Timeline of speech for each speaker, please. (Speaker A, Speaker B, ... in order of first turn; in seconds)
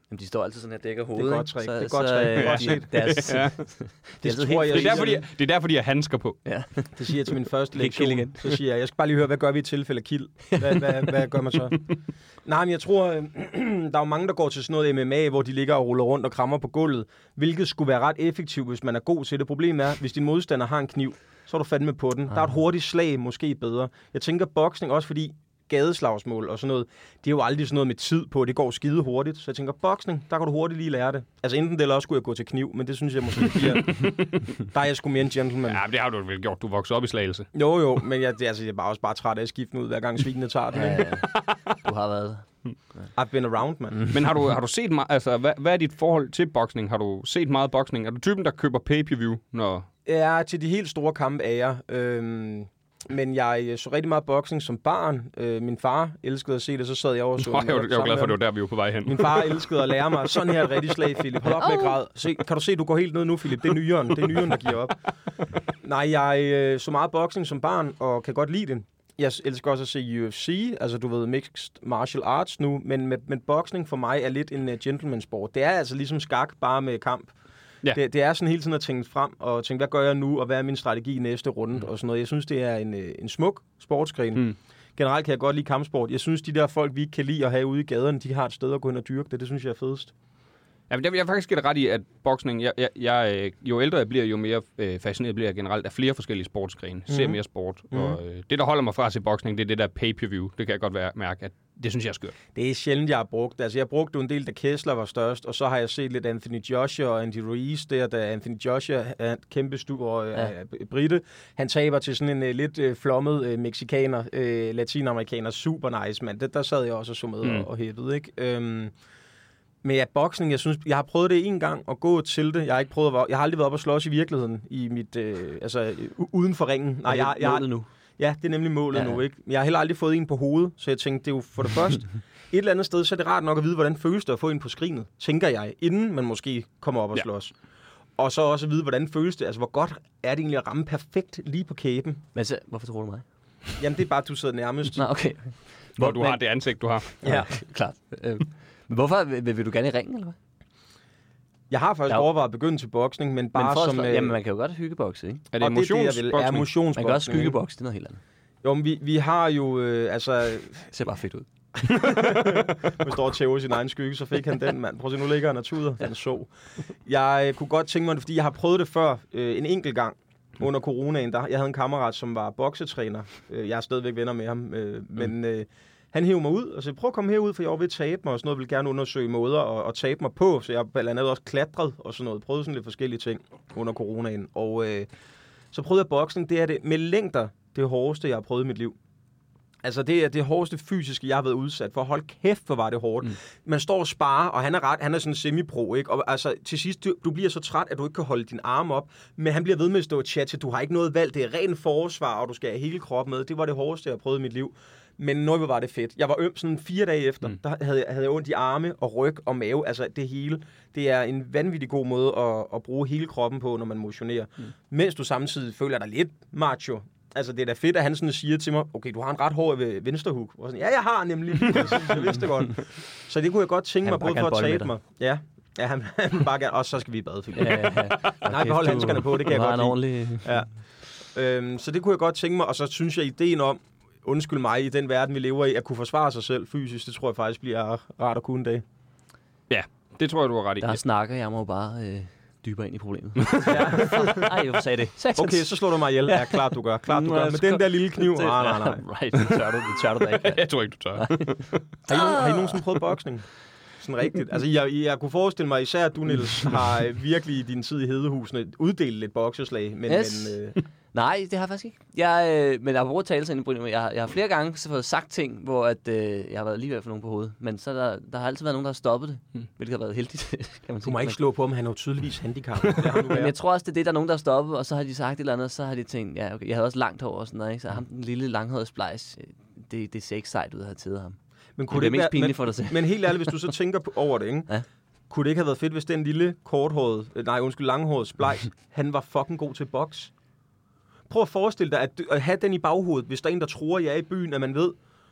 Speaker A: 0.1-5.1, 6.5-7.0, 7.8-8.6, 10.5-11.0, 40.7-42.5, 61.6-62.0, 127.0-127.9, 128.9-129.2, 142.3-143.2, 144.9-146.4, 147.1-150.4, 153.6-155.4, 157.0-158.2, 160.9-161.5, 224.0-224.9, 227.6-230.6, 240.8-250.7, 251.2-252.8, 260.1-260.6, 261.1-271.4, 273.3-281.4, 281.9-283.5
Speaker B: 1.1-3.0, 4.2-5.2, 7.0-11.8, 12.4-35.8, 37.5-41.2, 43.2-44.1, 50.1-58.4, 59.0-65.0, 65.8-77.3, 77.9-90.1, 97.1-97.4, 97.9-98.2, 102.5-118.9, 119.8-137.5, 138.2-142.2, 143.8-145.1, 147.2-147.5, 151.7-154.4, 155.6-157.6, 158.6-160.9, 161.8-166.5, 167.1-185.1, 185.7-189.0, 189.8-230.7, 231.3-238.8, 243.7-244.6, 245.3-249.1, 252.1-253.5, 254.0-260.8, 271.0-273.5, 281.8-284.7, 285.3-290.3, 291.3-295.0
Speaker C: 2.4-3.6, 4.7-6.4, 35.7-37.5, 44.1-49.9, 57.4-59.7, 90.9-102.4, 146.0-147.1, 155.5-156.7, 162.0-162.6, 239.7-241.0, 243.4-244.2, 250.2-251.9